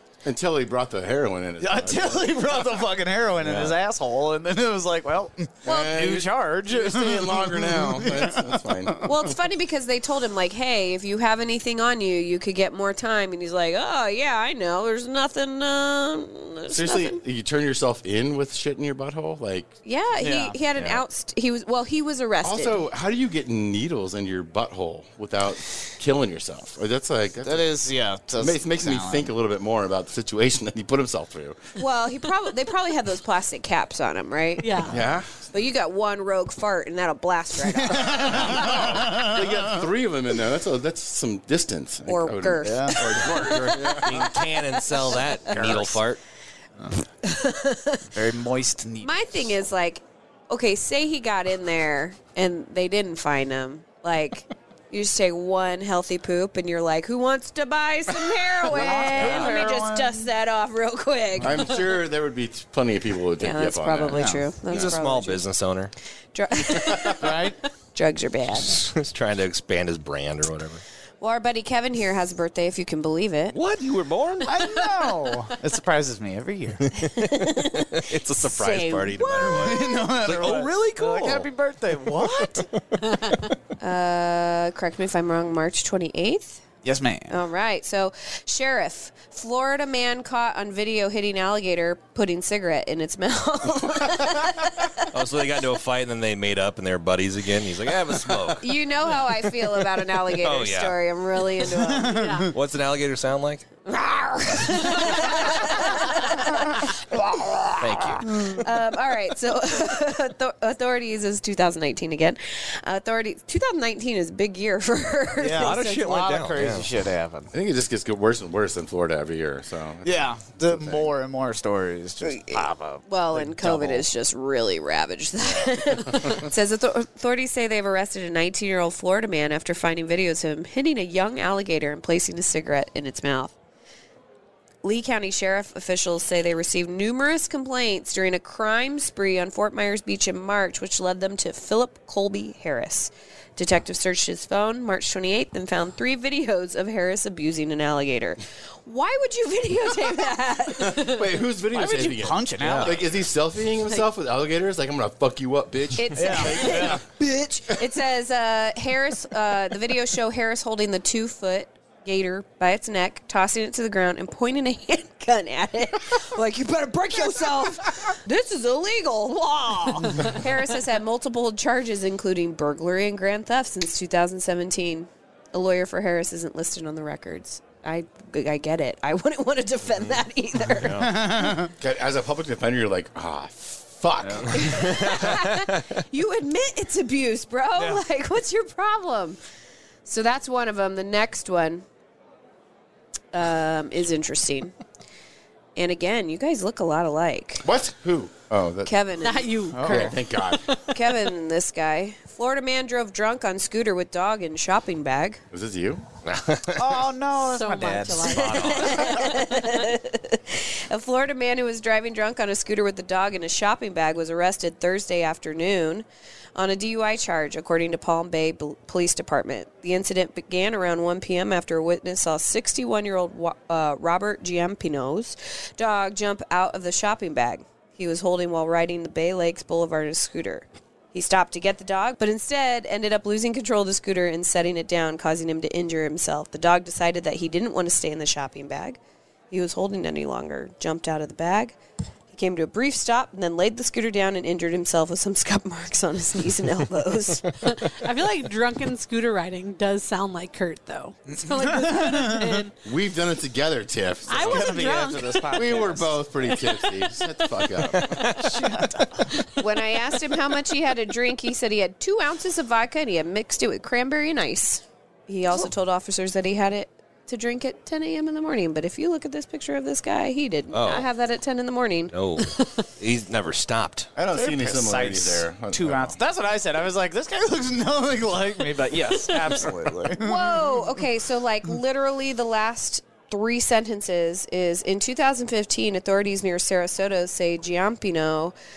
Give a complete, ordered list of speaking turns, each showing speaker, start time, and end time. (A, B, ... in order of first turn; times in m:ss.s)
0:00.2-0:02.4 A
0:01.6-0:09.0 B
0:05.6-0:09.1 A
0:09.0-0:17.2 C
0:16.7-0:19.7 A
0:19.8-0:22.8 C
0:20.2-0:21.0 B
0:22.4-0:27.7 A
0:27.4-0:29.3 B
0:28.4-0:31.6 A
0:31.8-0:34.9 C
0:34.6-0:35.0 D
0:34.9-0:35.4 A
0:35.5-0:38.7 C
0:37.7-0:39.8 B
0:38.3-0:44.2 A
0:42.1-0:43.3 C
0:42.6-0:44.3 B
0:44.0-0:46.2 E
0:45.4-0:46.0 B
0:47.2-0:48.1 C
0:48.1-0:49.3 B
0:49.0-1:01.6 C
0:58.7-1:00.2 B
0:59.2-0:59.5 E
1:01.4-1:04.9 A
1:03.4-1:05.4 C
1:04.1-1:04.4 B
1:04.7-1:05.9 E
1:06.3-1:08.9 C
1:06.6-1:07.2 A
1:07.2-1:07.6 B
1:08.7-1:10.8 E
1:11.2-1:13.6 C
1:13.5-1:14.5 E
1:14.4-1:16.9 B
1:16.9-1:21.5 E
1:17.0-1:19.7 C
1:19.4-1:22.7 B
1:23.8-1:26.6 C
1:26.8-1:27.4 B
1:27.3-1:35.1 C
1:35.1-1:38.7 E
1:38.6-1:42.4 C
1:40.4-1:41.0 E
1:42.1-1:42.5 D
1:42.5-1:43.7 E
1:43.8-1:56.2 C
1:47.8-1:48.6 E
1:55.4-1:57.5 B
1:55.6-1:56.9 E
1:57.5-2:01.1 A
2:00.0-2:04.1 B
2:02.2-2:13.5 C
2:14.8-2:31.3 C
2:30.8-2:37.0 A
2:31.7-2:33.0 B
2:32.6-2:33.0 E
2:36.0-3:01.2 C
2:36.1-2:37.0 B
3:00.8-3:01.1 E
3:00.9-3:01.7 B
3:01.7-3:05.3 A
3:04.2-3:04.5 B
3:04.5-3:09.4 C
3:04.9-3:05.9 E
3:07.8-3:08.0 B
3:10.1-3:11.8 C
3:13.3-3:14.7 C
3:15.8-3:17.6 C
3:17.6-3:18.9 A
3:18.9-3:20.0 C
3:19.2-3:21.0 D
3:19.7-3:20.2 B
3:19.8-3:20.7 A
3:20.9-3:25.4 C
3:25.5-3:26.0 A
3:26.3-3:26.9 E
3:26.7-3:29.5 B
3:27.4-3:29.2 D
3:28.5-3:36.0 C
3:36.6-3:59.0 C
3:59.5-4:01.8 C
4:02.3-4:07.5 C
4:07.6-4:12.7 D
4:11.3-4:12.7 B
4:12.8-4:14.9 A
4:14.3-4:15.9 D
4:14.4-4:16.3 B
4:15.5-4:18.2 A
4:17.9-4:18.6 E
4:18.1-4:19.4 B
4:19.6-4:32.1 C
4:30.7-4:31.1 E
4:32.1-4:34.1 E
4:34.2-4:36.2 A
4:34.3-4:41.0 B
4:40.2-4:48.5 C